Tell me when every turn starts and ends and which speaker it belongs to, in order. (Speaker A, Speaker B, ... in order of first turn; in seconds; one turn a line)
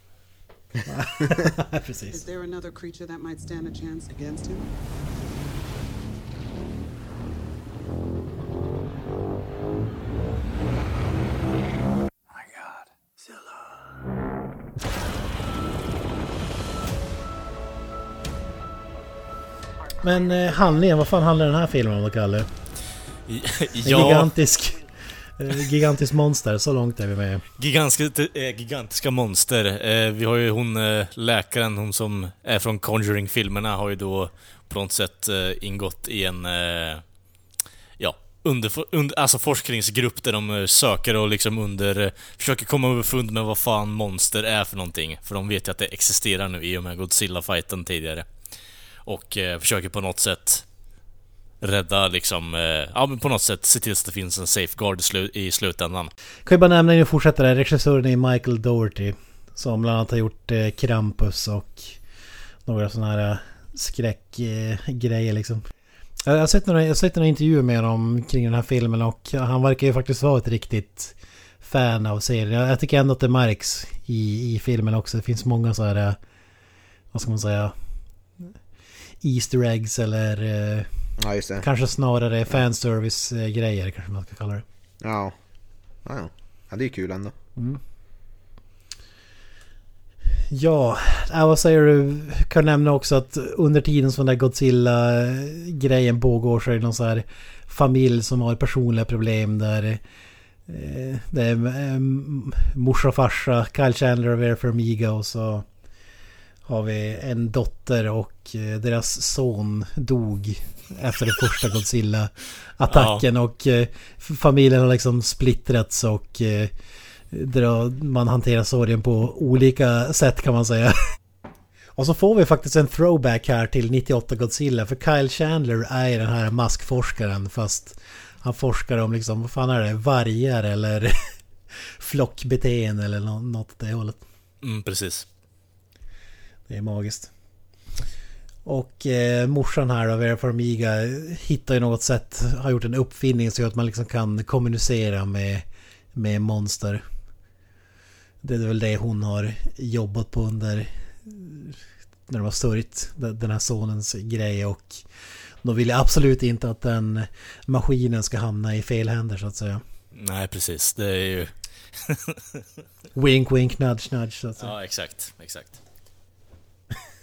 Speaker A: 0.9-2.2
Speaker B: 2.1-4.7
Speaker A: 20.0-22.5
Speaker C: 23.3-24.3
Speaker A: 23.8-24.8
Speaker A: 25.4-27.4
Speaker C: 27.6-37.0
Speaker C: 38.0-48.3
Speaker C: 49.0-50.6
Speaker C: 51.6-56.1
Speaker A: 56.5-62.0
Speaker A: 62.6-65.7
Speaker A: 66.2-76.2
Speaker A: 77.1-77.7
Speaker A: 79.2-80.9
Speaker D: 81.2-81.6
Speaker A: 81.6-84.6
Speaker D: 85.0-85.3
Speaker D: 86.0-87.3
Speaker A: 90.5-100.0
Speaker A: 100.7-105.7
Speaker A: 106.7-116.7
Speaker C: 112.9-113.2
Speaker A: 117.3-121.0
Speaker A: 122.0-131.3
Speaker A: 132.0-134.2
Speaker C: 134.6-135.2
Speaker A: 136.7-137.3
Speaker A: 138.6-147.0
Speaker A: 148.4-155.0
Speaker A: 155.6-159.8
Speaker C: 160.1-161.5
Speaker C: 162.0-162.6
Speaker A: 163.1-164.7
Speaker C: 164.6-165.8